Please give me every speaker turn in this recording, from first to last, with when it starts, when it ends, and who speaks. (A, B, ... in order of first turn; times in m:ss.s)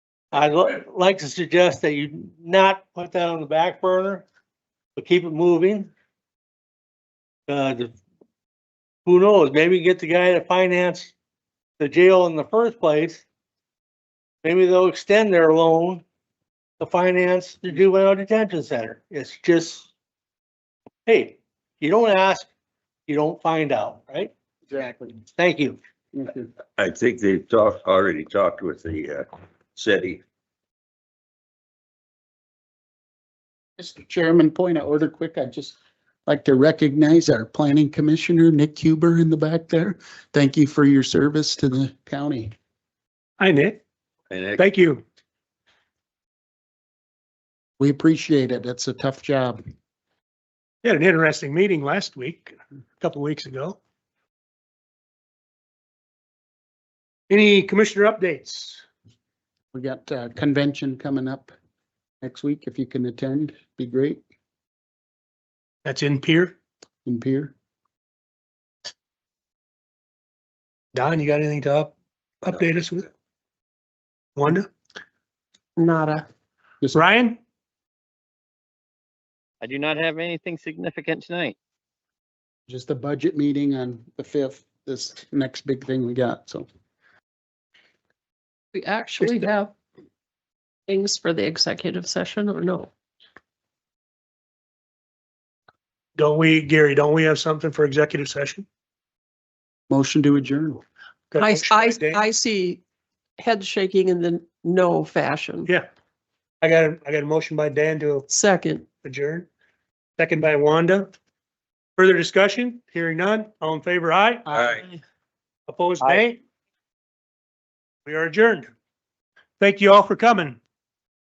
0:00.3-0:04.2 A
0:05.0-0:05.9 A
0:07.5-0:07.9 A
0:09.0-0:11.1 A
0:11.8-0:13.2 A
0:14.4-0:16.0 A
0:16.8-0:19.9 A
0:21.0-0:22.5 A
0:23.1-0:24.3 A
0:24.7-0:25.2 B
0:25.4-0:25.8 A
0:26.1-0:26.5 B
0:26.8-0:30.2 C
0:33.8-0:42.5 B
0:43.4-0:43.8 D
0:44.3-0:44.6 C
0:44.6-0:45.0 D
0:47.8-0:49.6 B
0:50.8-0:53.8 D
0:57.3-0:58.8 D
0:59.7-1:01.5 B
1:02.2-1:04.2 B
1:05.8-1:06.6 D
1:07.0-1:07.5 B
1:10.9-1:13.1 D
1:14.4-1:14.7 D
1:15.8-1:16.2 E
1:16.9-1:17.4 D
1:19.6-1:21.6 F
1:22.7-1:26.7 B
1:28.7-1:29.7 E
1:30.9-1:32.9 E
1:36.2-1:38.6 D
1:39.9-1:40.8 B
1:41.3-1:42.2 D
1:41.4-1:42.8 E
1:43.4-1:45.7 E
1:46.6-1:48.3 D
1:48.3-1:48.8 E
1:49.0-1:49.5 D
1:50.2-1:51.1 D
1:52.0-1:54.5 D
1:54.5-1:54.8 C
1:55.7-1:56.4 D
1:58.0-1:58.7 D
1:59.6-2:00.6 D